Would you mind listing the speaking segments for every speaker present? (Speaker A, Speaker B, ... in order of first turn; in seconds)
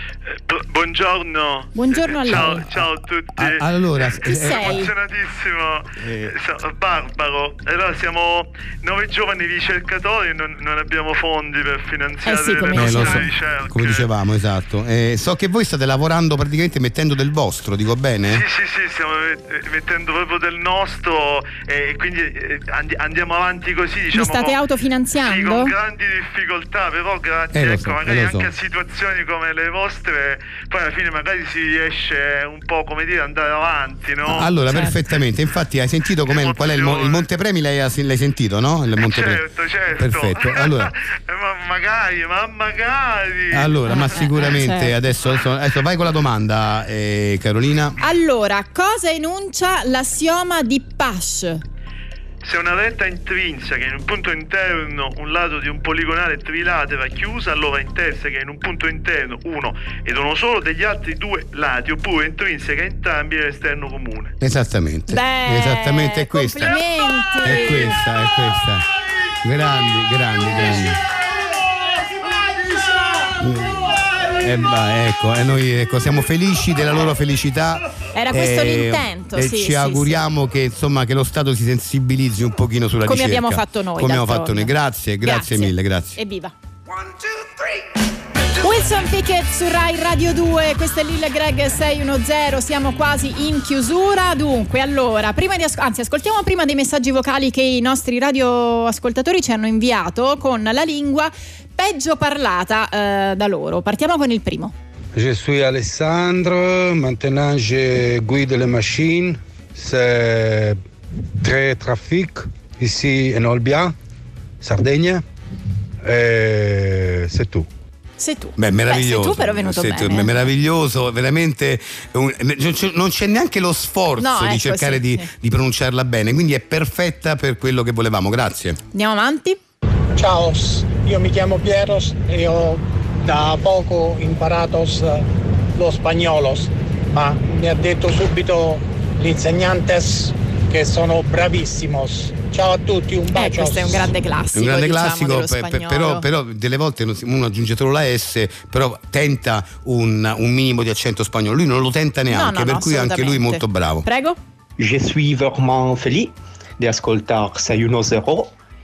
Speaker A: 0.3-14.1, 18.3-24.6, 25.2-34.5, 36.3-37.3, 38.9-44.2, 52.4-64.3
Speaker B: 1.7-2.6, 4.2-4.9, 12.2-13.3, 24.1-25.7, 34.3-35.0, 43.9-44.9, 48.0-51.6, 65.1-68.0, 78.1-80.2, 83.0-86.5, 88.6-104.7, 118.2-120.3, 124.2-125.3, 128.9-129.6, 143.3-146.3, 152.3-154.4
Speaker C: 2.3-4.8, 6.0-6.3, 12.7-18.4, 27.5-28.5, 34.3-40.9, 43.5-48.0, 64.4-66.8, 67.4-68.9, 69.4-71.0, 73.4-86.2, 118.6-128.8, 144.5-154.1
Speaker D: 105.1-110.8, 111.4-113.9, 114.6-115.2, 116.0-117.7
Speaker E: 130.2-144.1
Speaker F: 154.8-158.5